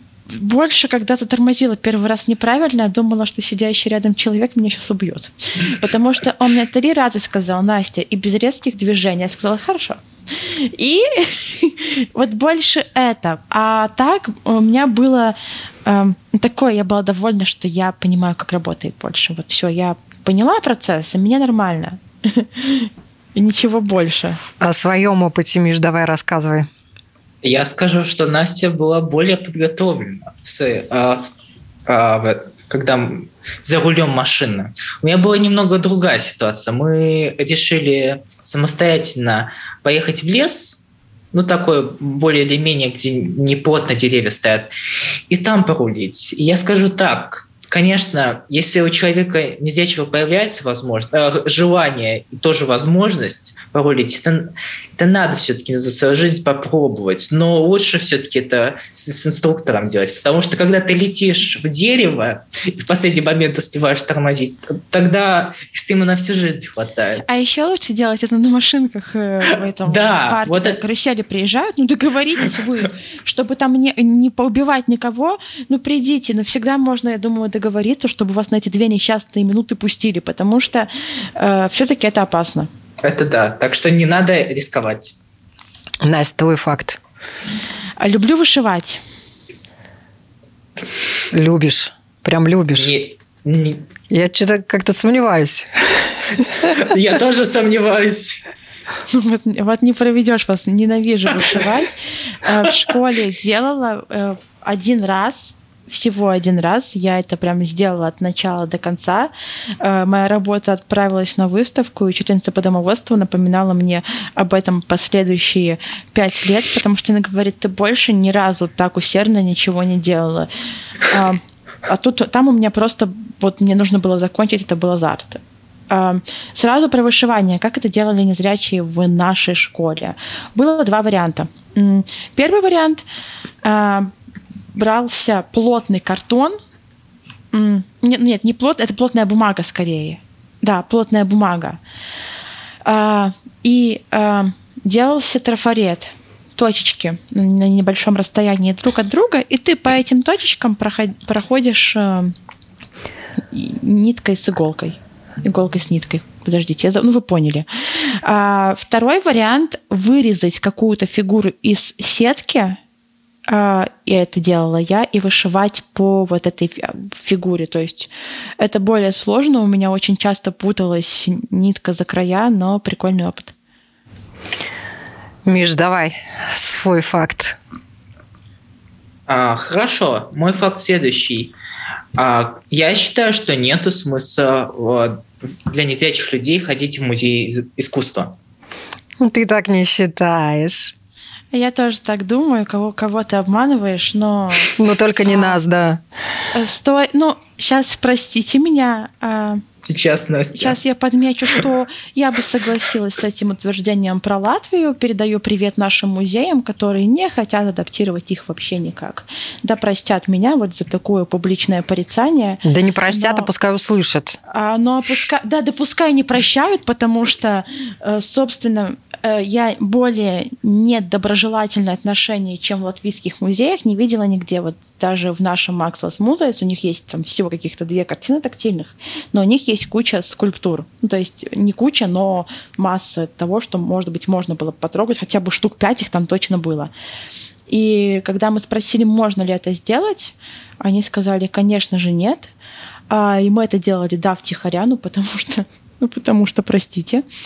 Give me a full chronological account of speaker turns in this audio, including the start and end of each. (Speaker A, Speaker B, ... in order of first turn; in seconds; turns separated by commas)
Speaker A: 0.3-24.4, Speaker B: 24.6-26.7, Speaker C: 27.4-31.3, Speaker C: 31.9-40.8, Speaker C: 41.3-44.7, Speaker C: 45.3-67.2, Speaker A: 67.3-82.7, Speaker C: 69.8-70.8, Speaker C: 83.0-85.2, Speaker B: 86.0-87.0, Speaker A: 88.0-89.0, Speaker B: 91.3-92.9, Speaker C: 92.8-93.8, Speaker B: 94.1-96.5, Speaker C: 96.8-98.4, Speaker A: 99.1-120.5, Speaker A: 121.0-133.1, Speaker A: 133.6-134.1, Speaker A: 134.7-136.6, Speaker A: 137.5-141.8, Speaker A: 142.8-152.3, Speaker A: 153.5-162.8, Speaker A: 163.5-173.5, Speaker B: 175.5-177.6, Speaker C: 179.3-181.6, Speaker C: 182.2-188.4, Speaker B: 189.2-190.9, Speaker A: 191.5-194.7, Speaker B: 194.8-196.0, Speaker A: 195.2-195.6, Speaker A: 196.5-199.6, Speaker C: 199.8-200.8, Speaker A: 200.6-213.5, Speaker B: 212.7-214.4, Speaker A: 214.5-236.9, Speaker A: 237.7-242.5, Speaker A: 243.1-247.2